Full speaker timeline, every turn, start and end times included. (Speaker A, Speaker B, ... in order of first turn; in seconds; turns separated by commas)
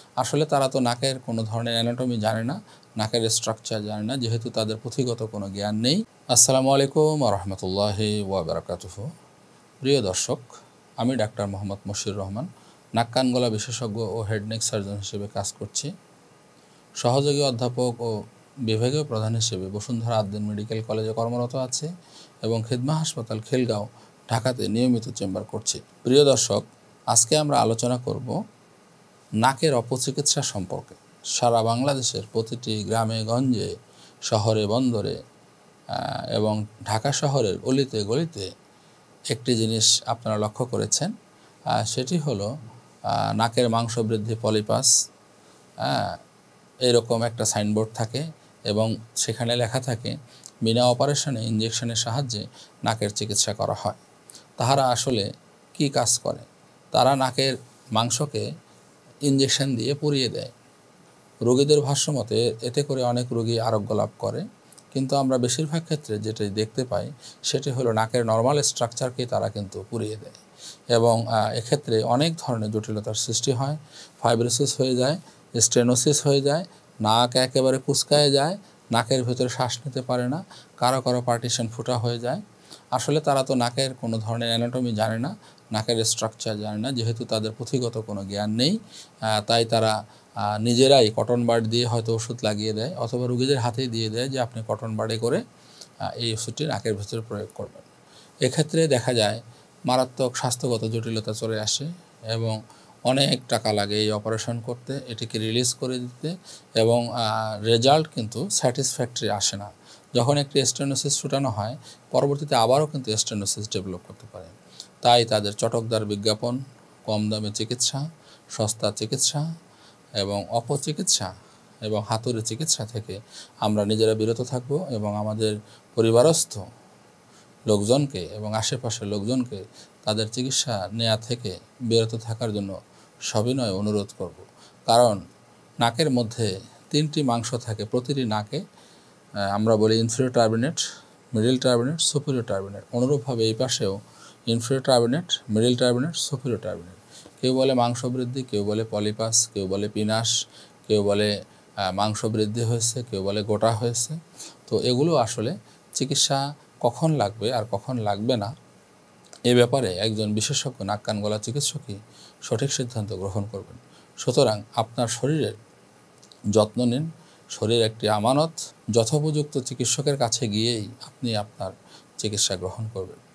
Speaker A: 0.2-9.1, Speaker A: 9.8-10.5, Speaker A: 11.0-15.9, Speaker A: 17.0-18.1, Speaker A: 18.7-21.9, Speaker A: 22.4-28.4, Speaker A: 29.4-33.7, Speaker A: 34.3-35.2, Speaker A: 35.9-38.5, Speaker A: 39.3-41.1, Speaker A: 41.8-42.5, Speaker A: 43.1-44.9, Speaker A: 45.8-46.1, Speaker A: 46.9-54.0, Speaker A: 54.6-58.5, Speaker A: 59.3-60.5, Speaker A: 61.5-70.4, Speaker A: 70.9-82.4, Speaker A: 83.0-88.8, Speaker A: 89.3-89.9, Speaker A: 90.5-95.4, Speaker A: 96.1-97.9, Speaker A: 98.5-102.6, Speaker A: 103.1-107.1, Speaker A: 107.7-118.0, Speaker A: 118.5-119.5, Speaker A: 120.2-121.3, Speaker A: 121.8-126.7, Speaker A: 127.7-132.8, Speaker A: 133.3-135.2, Speaker A: 135.8-138.6, Speaker A: 139.6-140.8, Speaker A: 141.3-144.0, Speaker A: 144.5-150.3, Speaker A: 150.9-151.3, Speaker A: 152.0-158.5, Speaker A: 159.5-165.6, Speaker A: 166.6-173.2